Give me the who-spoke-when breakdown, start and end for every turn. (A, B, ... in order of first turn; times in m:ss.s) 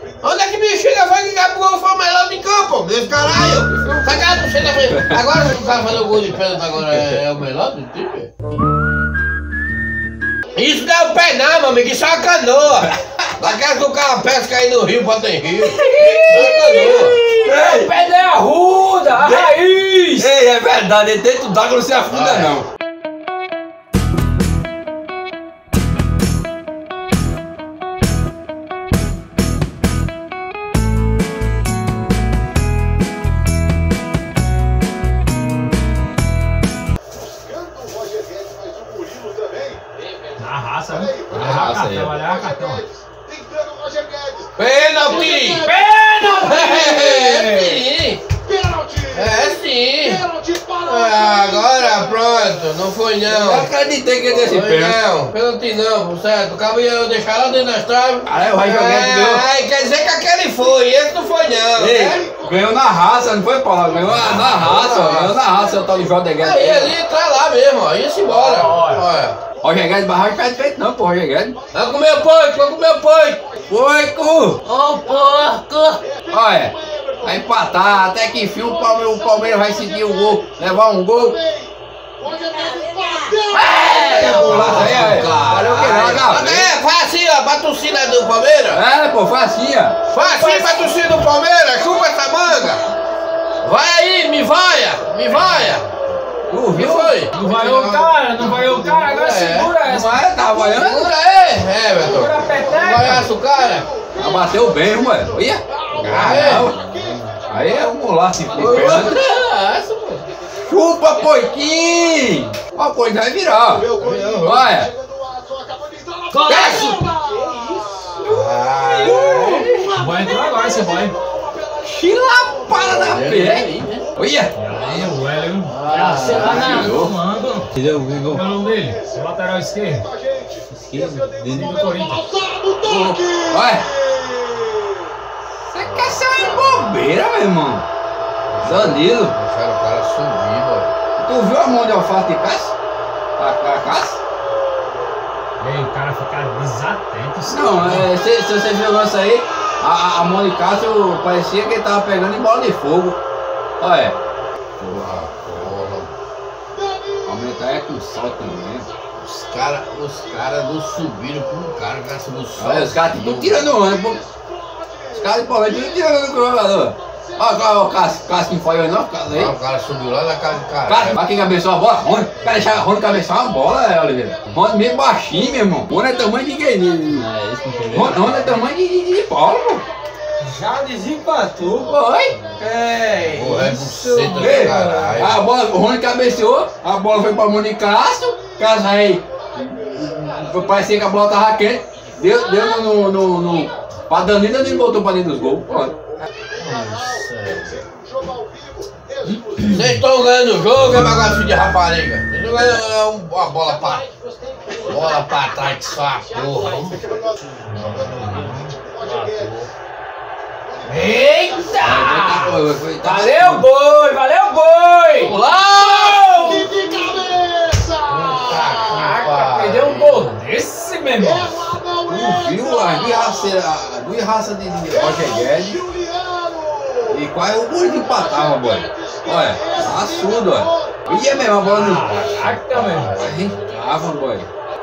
0:00.2-0:08.3 A
0:03.6-0:05.2 B
0:10.5-0:17.2 A
0:12.9-0:13.1 B
0:15.6-0:17.9 B
0:16.0-0:20.3 C
0:19.1-0:22.7 B
0:22.1-0:22.6 A
0:40.4-0:42.8 C
0:41.3-0:42.2 B
0:44.6-0:45.7 A
0:45.1-0:47.8 C
0:46.2-0:48.2 A
0:49.1-0:50.3 A
0:50.8-0:53.7 A
0:53.3-0:55.0 B
0:54.4-1:02.2 A
0:58.2-0:59.4 B
1:01.8-1:06.9 B
1:04.1-1:05.4 A
1:04.1-1:04.6 C
1:06.4-1:09.4 A
1:08.3-1:09.0 C
1:09.6-1:11.6 B
1:11.7-1:13.4 A
1:13.7-1:14.6 B
1:14.6-1:16.0 D
1:16.3-1:21.4 B
1:19.5-1:20.3 E
1:22.3-1:25.1 E
1:22.5-1:24.9 D
1:23.5-1:26.7 B
1:23.8-1:28.8 A
1:24.1-1:25.2 C
1:28.7-1:30.0 B
1:30.1-1:32.8 A
1:30.2-1:30.9 C
1:33.6-1:35.8 A
1:36.5-1:37.2 B
1:36.7-1:39.8 A
1:37.3-1:40.2 C
1:39.8-1:41.1 B
1:40.5-1:43.9 A
1:42.0-1:43.3 C
1:44.2-1:46.8 B
1:46.0-1:46.8 A
1:46.0-1:47.4 E
1:47.5-1:49.2 B
1:48.5-1:50.2 A
1:50.6-1:53.9 B
1:54.0-1:54.7 A
1:54.4-1:54.9 B
1:56.3-1:57.1 D
1:56.5-1:57.8 E
1:56.5-1:56.9 B
1:58.2-1:59.6 A
1:59.0-2:00.1 B
1:59.8-2:01.2 C
2:01.8-2:04.5 B
2:02.8-2:04.1 A
2:04.6-2:10.1 C
2:05.6-2:06.7 A
2:06.2-2:06.9 D
2:06.3-2:07.2 B
2:07.9-2:08.2 D
2:10.9-2:12.3 C
2:11.0-2:11.4 D
2:11.0-2:13.2 E
2:12.8-2:13.9 B
2:15.7-2:17.9 B
2:15.8-2:16.9 A
2:18.5-2:20.9 A
2:18.6-2:19.4 B
2:21.2-2:22.7 B
2:23.4-2:24.2 B
2:25.6-2:28.1 C
2:27.5-2:33.2 B
2:33.8-2:34.2 B
2:34.8-2:36.1 A
2:37.2-2:38.9 B
2:39.2-2:43.7 A
2:42.6-2:44.2 B
2:45.1-2:49.5 B
2:49.3-2:51.2 A
2:50.9-2:57.3 B
2:57.4-2:58.1 D
2:57.6-2:58.4 C
2:57.9-2:59.8 B
2:57.9-2:58.4 E
3:00.4-3:01.9 C
3:01.8-3:02.4 B
3:02.6-3:05.0 C
3:03.2-3:05.4 A
3:04.2-3:16.0 B
3:16.5-3:17.9 A
3:19.6-3:24.0 A
3:24.8-3:27.0 A
3:27.6-3:29.7 C
3:30.8-3:37.0 C
3:31.8-3:33.7 B
3:35.2-3:36.6 A
3:36.3-3:38.3 E
3:38.1-3:40.3 A
3:38.3-3:41.8 C
3:41.7-3:42.9 E
3:42.1-3:45.8 B
3:47.1-3:54.5 B
3:49.3-3:50.7 E
3:51.6-3:53.2 C
3:52.1-3:53.6 A